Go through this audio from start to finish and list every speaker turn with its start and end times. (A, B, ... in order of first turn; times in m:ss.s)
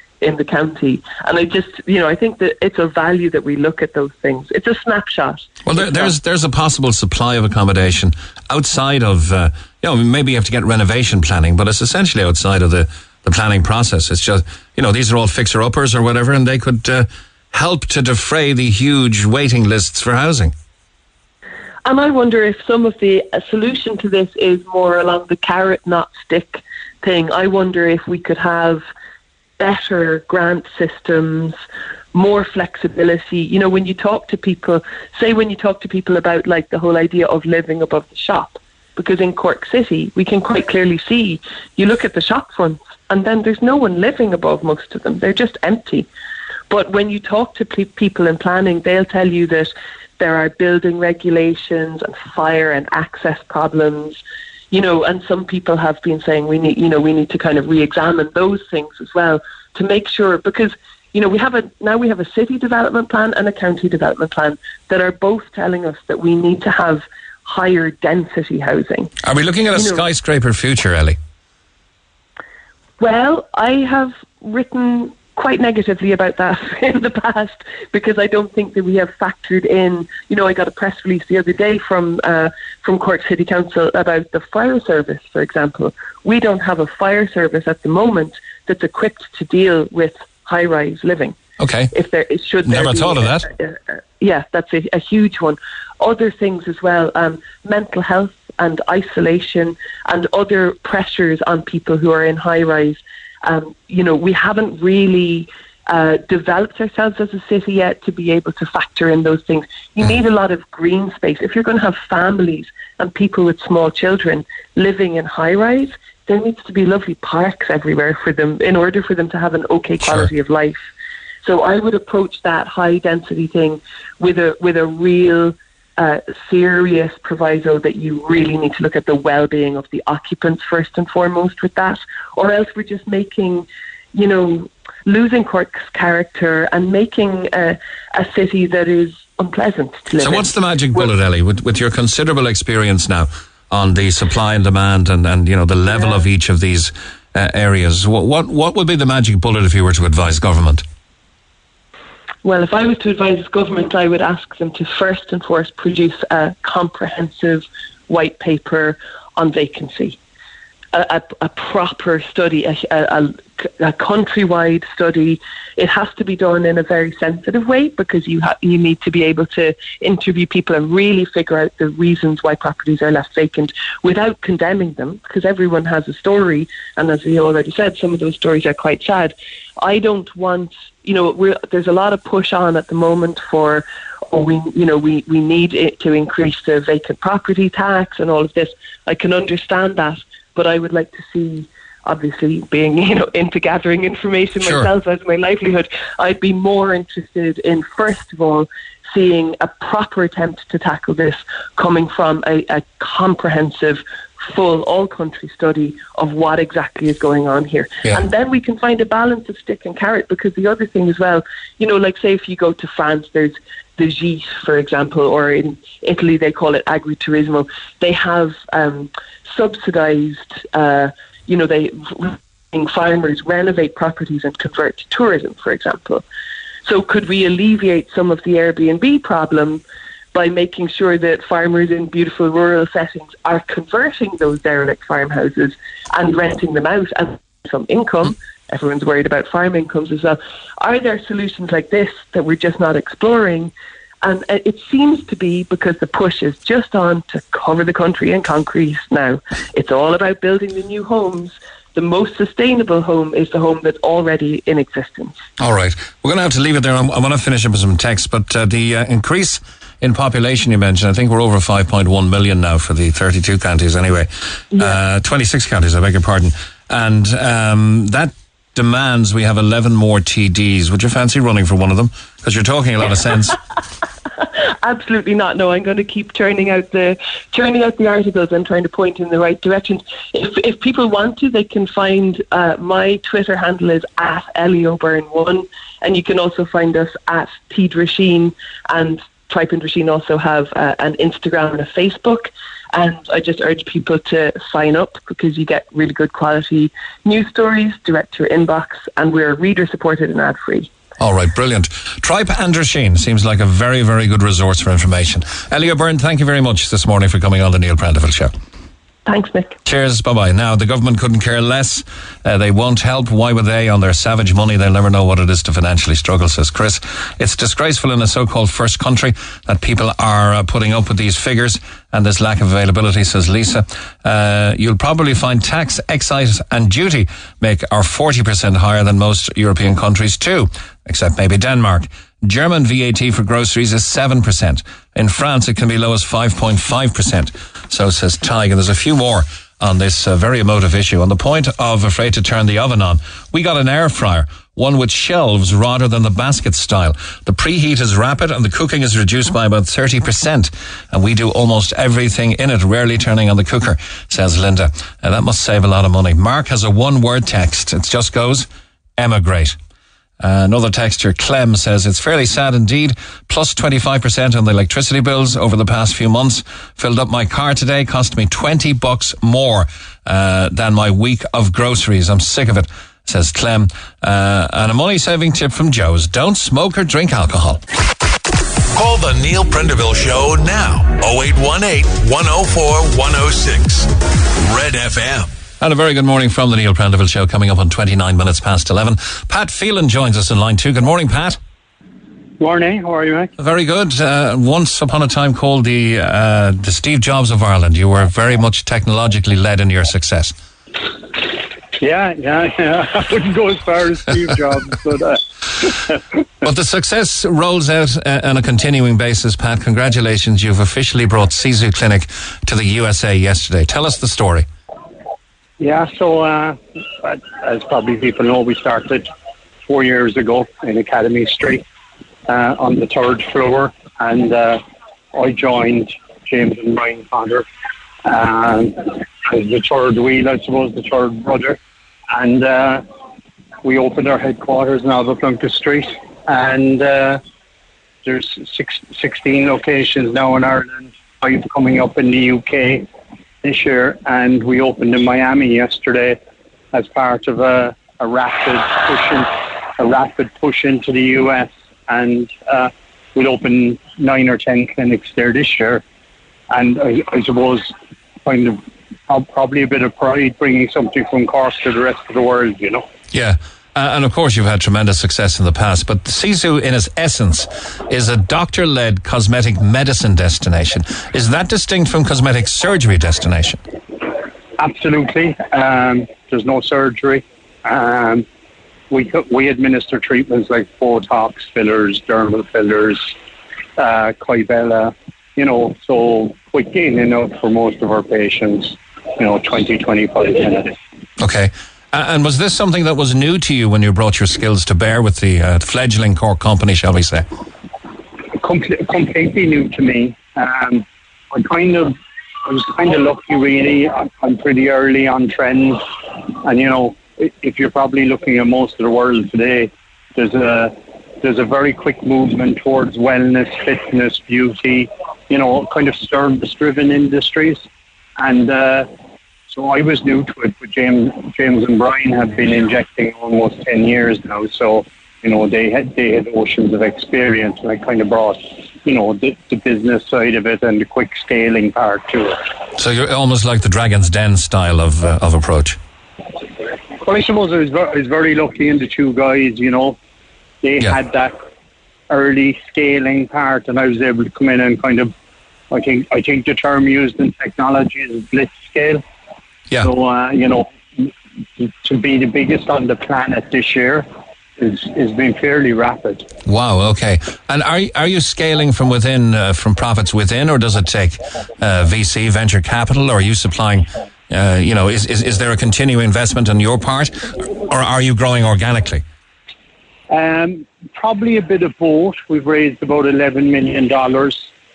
0:00.2-0:06.2 A
0:05.6-0:20.5 B
0:21.8-0:28.8 A
0:29.6-0:31.6 A
0:32.1-0:46.1 A
0:46.7-0:54.2 A
0:54.7-1:09.1 A
1:09.2-1:11.2 B
1:09.7-1:10.0 A
1:13.0-1:31.4 A
1:31.6-1:31.9 B
1:31.9-2:00.8 A
1:32.6-1:33.4 B
2:00.0-2:00.3 B
2:01.4-2:21.1 A
2:20.2-2:30.8 B
2:32.4-2:40.2 A
2:40.9-3:46.2 A
3:14.6-3:14.9 B
3:46.8-3:49.8 A
3:50.3-4:15.4 A
4:15.6-4:33.6 B
4:24.7-4:25.0 A
4:34.4-5:00.9 A
5:01.2-5:08.5 B
5:09.2-5:09.7 A
5:09.8-5:59.8 B
6:00.4-6:17.8 B
6:18.9-6:25.5 C
6:25.8-6:31.6 B
6:32.6-6:33.5 D
6:33.6-6:40.5 B
6:42.0-6:46.2 D
6:46.6-6:54.7 B
6:55.8-6:59.3 D
6:59.8-7:01.8 D
7:02.5-7:04.8 D
7:05.3-7:07.6 D
7:08.2-7:11.8 D
7:12.3-7:13.0 D
7:13.8-7:17.4 D
7:18.2-7:23.1 D
7:23.6-7:26.4 D
7:26.9-7:36.0 D
7:36.7-7:43.1 D
7:43.3-7:53.8 B
7:54.8-7:58.4 D
7:59.1-8:03.3 D
8:04.0-8:10.9 D
8:11.4-8:17.4 B
8:18.5-8:37.9 D
8:38.4-8:39.1 D
8:39.7-8:52.6 D
8:53.0-8:56.0 B
8:57.2-9:00.2 D
9:00.8-9:01.6 D
9:02.3-9:05.3 D
9:05.9-9:09.2 D
9:10.0-9:16.5 D
9:16.6-9:29.2 B
9:30.3-9:34.7 D